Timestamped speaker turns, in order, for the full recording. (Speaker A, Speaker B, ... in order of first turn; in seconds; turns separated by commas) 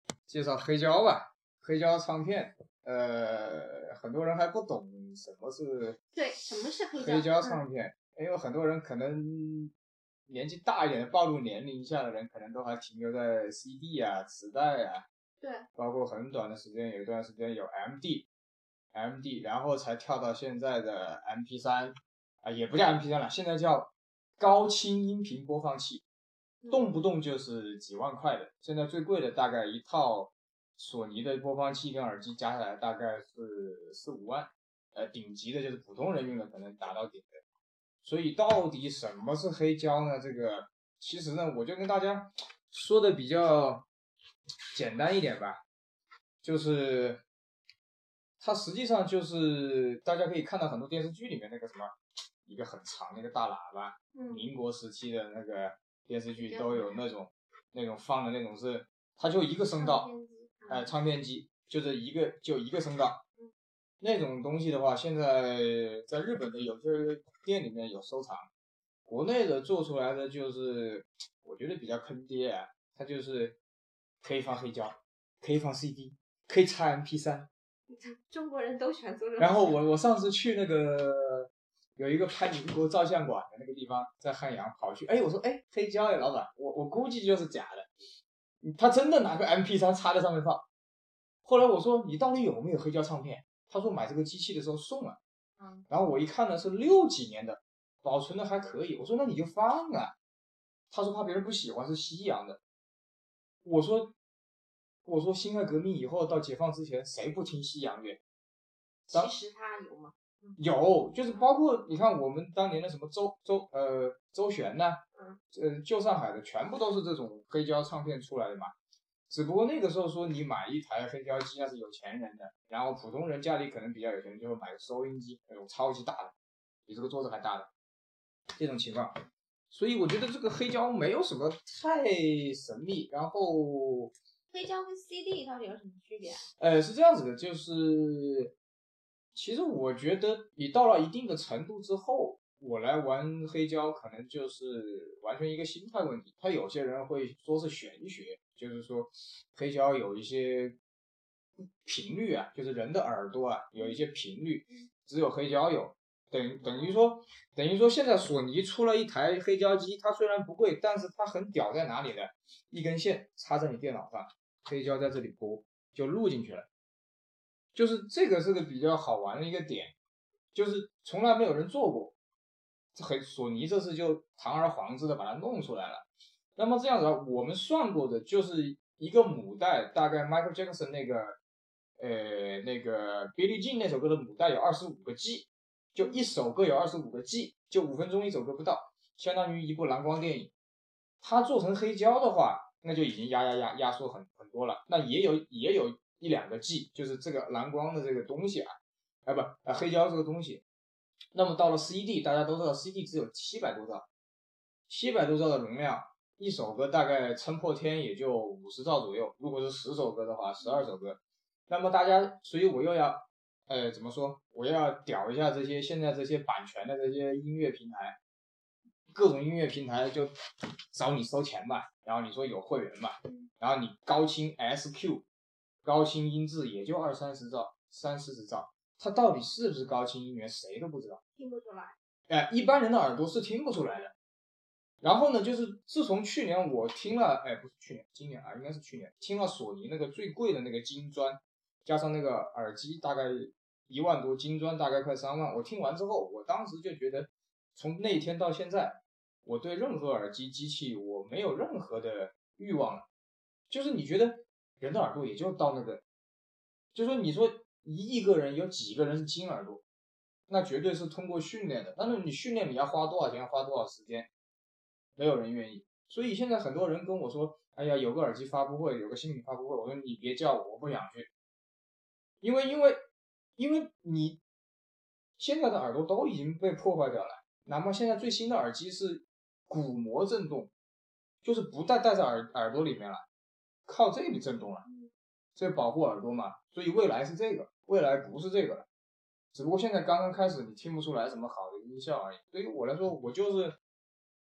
Speaker A: 0.3-6.0, Speaker B: 6.1-7.6, Speaker A: 7.0-9.7, Speaker A: 10.3-15.0, Speaker B: 15.4-15.7, Speaker A: 15.7-18.3, Speaker A: 18.9-26.0, Speaker B: 26.6-26.9, Speaker A: 26.7-37.3, Speaker A: 38.0-43.9, Speaker A: 44.7-45.6, Speaker A: 46.4-47.2, Speaker A: 48.4-51.9, Speaker A: 52.5-60.1, Speaker B: 54.1-54.5, Speaker B: 56.4-57.0, Speaker B: 59.8-60.9, Speaker A: 60.7-63.2, Speaker A: 64.0-68.5, Speaker A: 69.0-73.6, Speaker A: 74.2-77.5, Speaker B: 77.9-79.7, Speaker A: 79.4-87.9, Speaker A: 88.6-90.6, Speaker A: 91.4-95.2, Speaker B: 95.6-95.8, Speaker A: 95.9-100.1, Speaker A: 100.9-102.6, Speaker A: 103.6-104.1, Speaker A: 105.0-108.2, Speaker B: 109.1-110.6, Speaker A: 110.6-115.0, Speaker A: 115.5-118.7, Speaker A: 119.3-126.3, Speaker A: 126.9-127.7, Speaker A: 128.6-129.1, Speaker A: 129.7-134.1, Speaker B: 134.5-136.4, Speaker A: 136.6-138.5, Speaker A: 139.3-150.8, Speaker A: 151.8-166.7, Speaker B: 156.6-157.0, Speaker A: 167.7-169.9, Speaker A: 170.5-172.2, Speaker A: 172.9-176.0, Speaker A: 176.6-181.3, Speaker A: 182.0-190.5, Speaker A: 191.2-198.7, Speaker A: 199.2-200.6, Speaker A: 201.3-204.1, Speaker A: 204.9-218.2, Speaker B: 210.6-210.8, Speaker A: 219.1-220.3, Speaker A: 220.9-225.2, Speaker A: 225.8-231.2, Speaker B: 231.3-231.9, Speaker A: 232.3-234.1, Speaker A: 235.0-253.1, Speaker A: 253.7-256.0, Speaker A: 256.9-259.8, Speaker A: 260.5-264.3, Speaker A: 265.2-271.3, Speaker A: 272.4-273.0, Speaker A: 273.6-274.4, Speaker A: 275.4-280.7, Speaker A: 281.4-283.2, Speaker A: 283.9-284.8, Speaker B: 284.8-285.1, Speaker A: 285.6-288.9, Speaker A: 289.5-293.8